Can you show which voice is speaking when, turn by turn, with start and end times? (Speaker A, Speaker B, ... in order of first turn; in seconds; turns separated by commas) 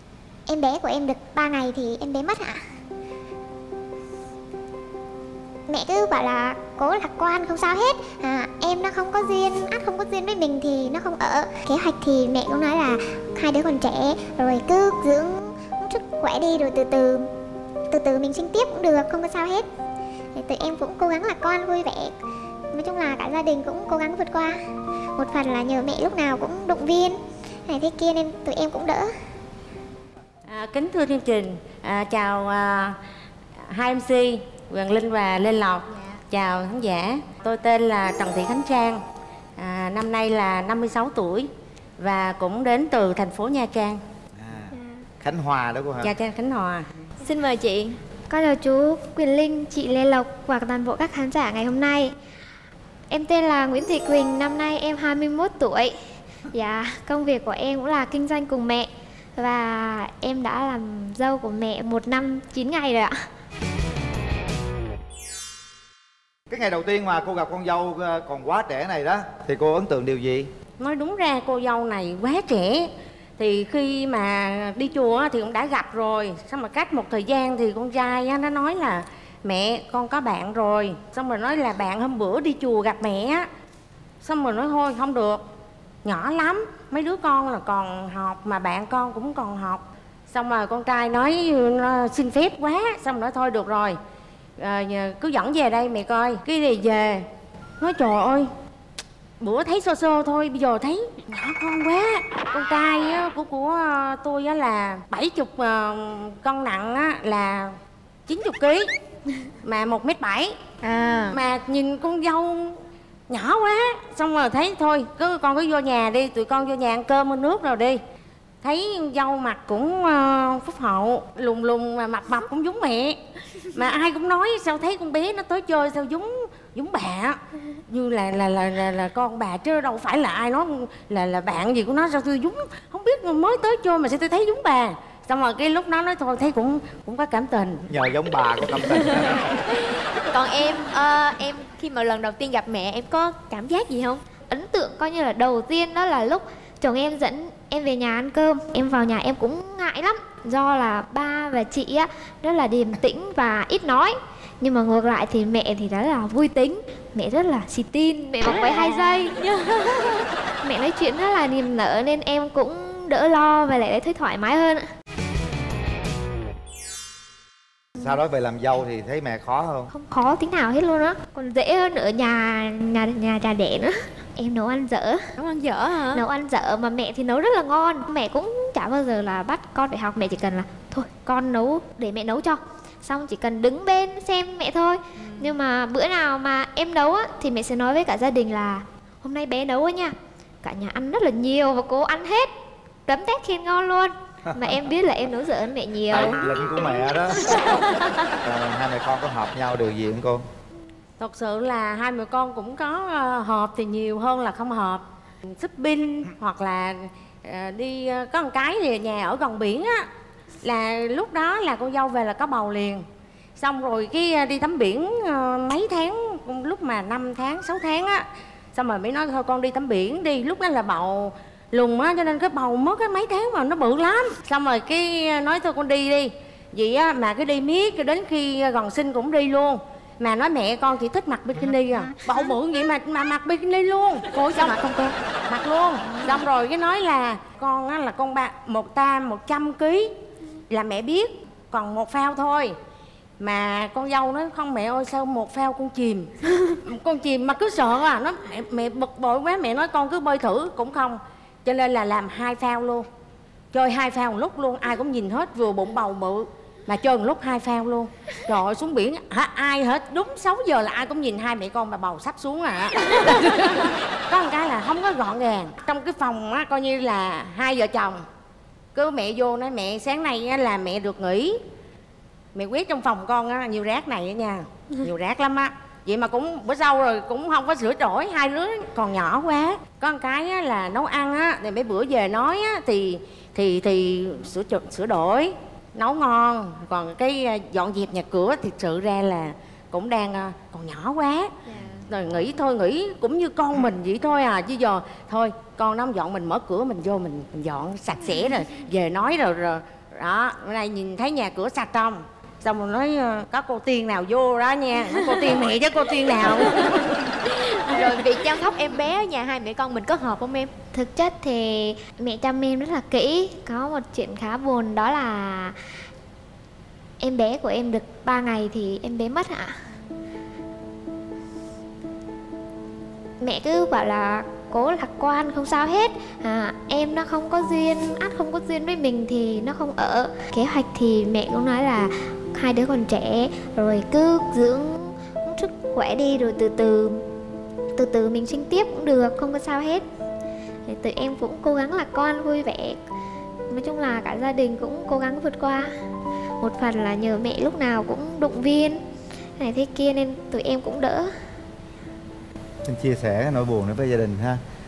Speaker A: 0.5-2.6, Speaker A: 5.7-17.3, Speaker A: 17.9-19.7, Speaker A: 20.3-22.1, Speaker A: 22.7-24.6, Speaker A: 25.2-29.1, Speaker B: 30.5-33.0, Speaker B: 33.7-39.0, Speaker B: 39.6-44.0, Speaker C: 44.4-46.1, Speaker B: 46.0-46.9, Speaker D: 47.2-48.0, Speaker E: 48.3-52.1, Speaker E: 53.1-56.0, Speaker E: 56.5-63.1, Speaker C: 66.5-70.5, Speaker B: 70.8-83.5, Speaker B: 84.2-85.4, Speaker B: 86.0-94.0, Speaker B: 94.6-97.3, Speaker B: 97.8-98.5, Speaker B: 99.4-107.8, Speaker B: 108.3-108.9, Speaker B: 109.6-110.6, Speaker D: 110.8-111.4, Speaker B: 111.3-118.0, Speaker B: 118.6-123.2, Speaker B: 123.7-137.8, Speaker C: 137.9-139.5, Speaker D: 139.5-144.2, Speaker E: 144.5-159.4, Speaker D: 158.5-160.2, Speaker E: 160.6-164.8, Speaker C: 168.0-169.9, Speaker E: 169.9-175.3, Speaker D: 175.4-176.2, Speaker E: 176.1-192.5, Speaker E: 193.1-196.4, Speaker C: 196.1-197.4, Speaker C: 198.4-200.4, Speaker B: 201.2-210.1, Speaker B: 210.6-218.2, Speaker B: 218.7-234.8, Speaker D: 234.4-235.2, Speaker B: 235.5-240.1, Speaker B: 240.7-242.7, Speaker B: 243.4-253.1, Speaker B: 253.7-268.2, Speaker B: 268.9-271.6, Speaker B: 272.5-291.5, Speaker D: 291.7-292.0, Speaker B: 292.0-307.1, Speaker D: 306.8-310.7, Speaker E: 310.9-315.8, Speaker E: 317.2-319.8, Speaker E: 323.4-337.2, Speaker E: 337.9-340.0, Speaker E: 340.9-343.0, Speaker E: 343.7-345.9, Speaker E: 346.6-349.0, Speaker E: 349.6-351.3, Speaker C: 352.8-354.6